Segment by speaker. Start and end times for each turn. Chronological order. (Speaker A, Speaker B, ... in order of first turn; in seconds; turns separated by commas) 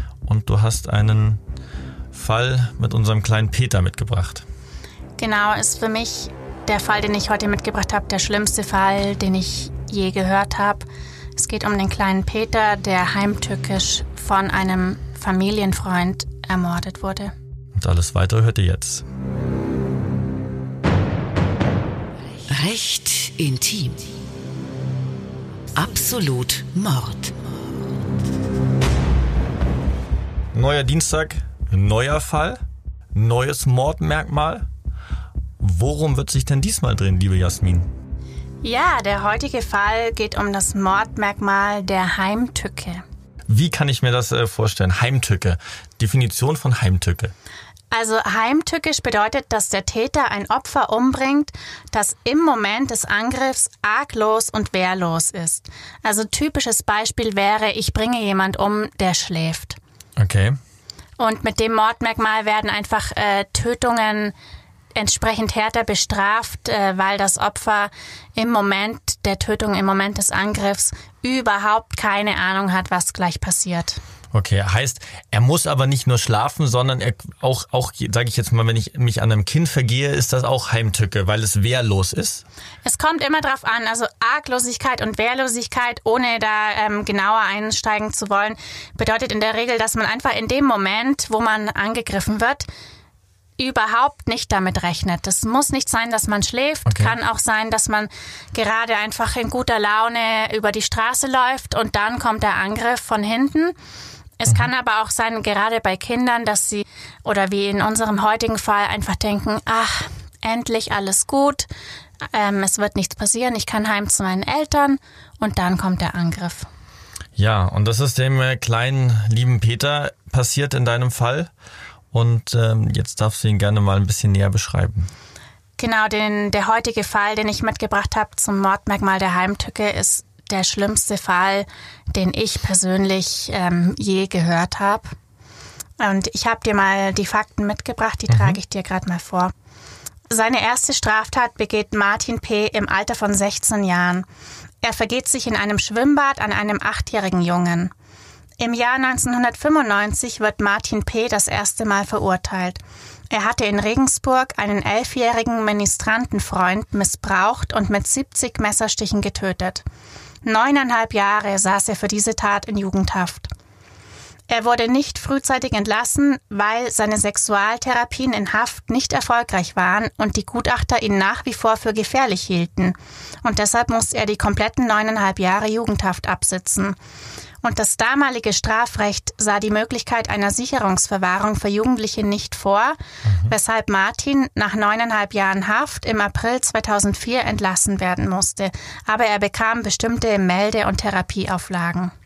Speaker A: 0.3-1.4, Speaker A: 2.1-4.4, Speaker B: 5.2-17.3, Speaker A: 17.8-19.1, Speaker C: 22.5-24.0, Speaker C: 25.8-27.3, Speaker A: 30.5-32.6, Speaker A: 33.1-34.7, Speaker A: 35.6-37.9, Speaker B: 38.6-43.0, Speaker A: 43.5-47.3, Speaker B: 47.9-59.8, Speaker A: 60.2-60.6, Speaker B: 61.2-64.3, Speaker B: 65.0-74.0, Speaker A: 74.3-82.5, Speaker B: 82.8-92.7, Speaker B: 93.6-103.8, Speaker A: 96.9-97.2, Speaker B: 104.4-111.7, Speaker B: 112.3-116.7, Speaker A: 117.4-121.5, Speaker A: 122.1-125.1, Speaker B: 125.8-135.1, Speaker B: 136.0-139.5, Speaker A: 138.3-138.6, Speaker B: 140.3-144.3, Speaker B: 144.8-147.9, Speaker B: 148.6-152.8, Speaker B: 153.3-159.8, Speaker B: 160.4-163.5, Speaker B: 164.5-177.0, Speaker B: 177.6-192.1, Speaker A: 183.2-183.5